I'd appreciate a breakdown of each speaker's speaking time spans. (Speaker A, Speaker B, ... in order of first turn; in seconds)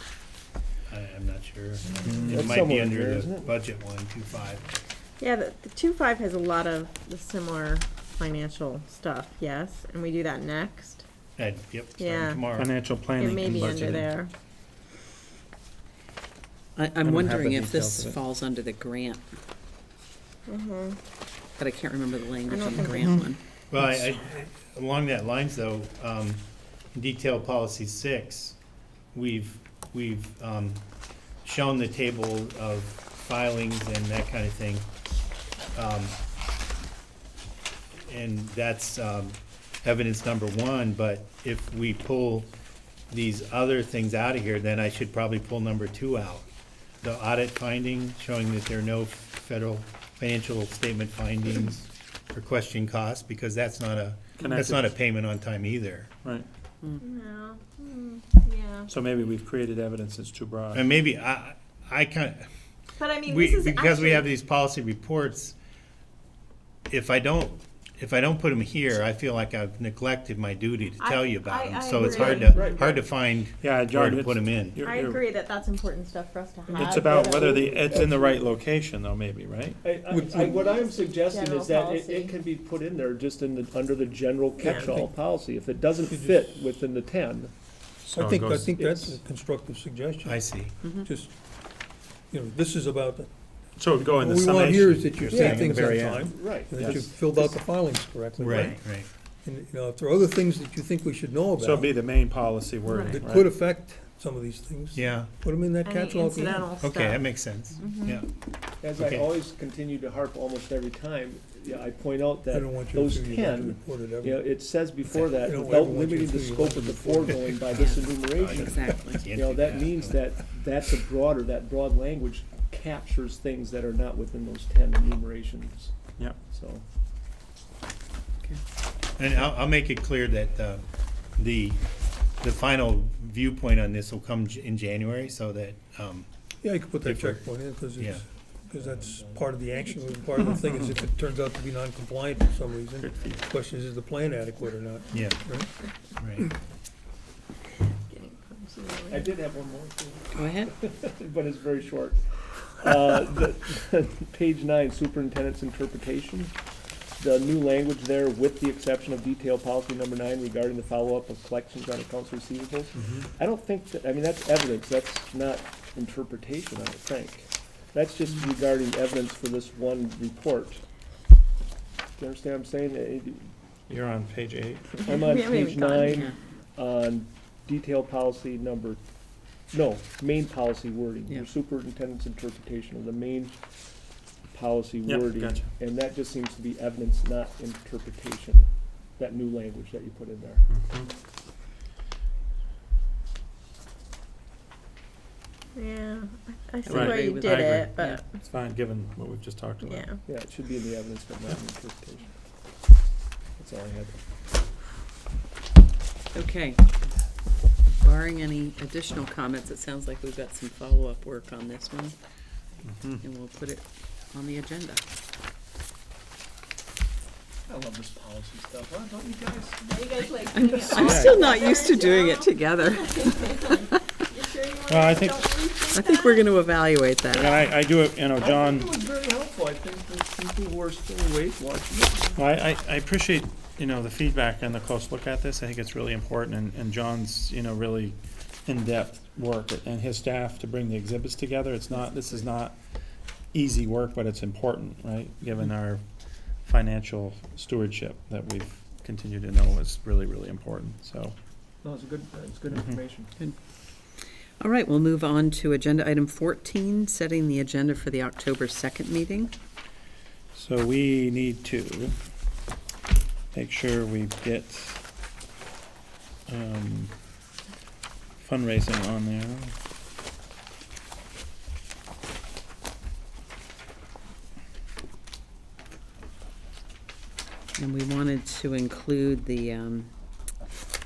Speaker A: 0.9-4.8, 11.4-12.7, 23.7-26.4, 26.9-28.6, 29.1-30.8, 31.4-34.9, 35.7-36.2, 38.1-42.5, 43.1-46.5, 47.0-56.1, 60.7-62.4, 63.2-65.5, 66.9-74.8, 90.2-90.8, 95.3-96.2, 98.4-99.1, 104.9-105.3, 106.8-108.2, 109.0-109.3, 118.3-120.2, 129.2-130.8, 131.3-131.8, 132.4-136.3, 137.0-137.4, 138.0-138.2, 145.1-145.4, 146.2-146.5
Speaker B: 2.0-2.6, 12.5-14.1, 17.0-18.2, 23.8-24.1, 54.4-54.9, 58.9-60.8, 73.6-75.2, 76.7-79.9, 88.1-88.7, 93.8-96.2, 96.7-97.1, 101.6-103.5, 140.5-140.9, 143.0-143.4, 173.9-174.9, 185.0-185.7, 190.7-191.1, 196.8-200.1, 212.8-213.2, 220.9-221.5, 224.8-225.5, 227.3-228.9, 232.3-242.7, 243.5-246.0, 246.6-251.3, 252.7-253.0, 260.5-262.2, 263.5-265.0, 266.5-267.1, 268.4-269.7
Speaker C: 2.2-3.5, 72.2-73.1, 77.0-78.5, 79.8-87.5, 88.8-89.2, 95.3-97.6, 108.8-125.9, 126.5-126.8, 138.7-139.5, 149.1-152.2, 152.8-156.5, 157.2-170.8, 172.2-173.5, 175.0-179.0, 179.7-183.6, 184.5-188.7, 189.2-190.6, 200.2-202.3, 203.6-204.1, 217.7-220.9, 228.4-232.4, 241.9-242.4, 251.8-253.3
Speaker D: 5.2-11.0, 12.0-12.4, 13.2-14.3, 20.5-21.0, 22.5-23.3, 57.0-58.9, 63.0-64.3, 71.0-72.9, 74.8-77.6, 80.3-82.4, 84.6-85.1, 98.5-98.8, 105.8-108.2, 147.9-149.4, 175.0-176.2, 195.7-198.3, 199.8-200.2, 219.8-226.5
Speaker E: 16.8-19.2, 21.6-23.4, 90.8-91.1, 117.7-119.2, 150.3-150.7, 176.1-176.3, 196.8-198.2, 206.3-206.9, 208.0-212.1, 213.2-215.0, 220.4-224.0, 225.9-227.6, 254.6-259.5, 277.8-280.1
Speaker F: 80.1-80.5, 86.1-86.5, 88.0-91.4, 92.3-93.3, 94.1-102.0, 103.0-106.7, 112.5-114.6, 115.3-117.8, 136.6-145.7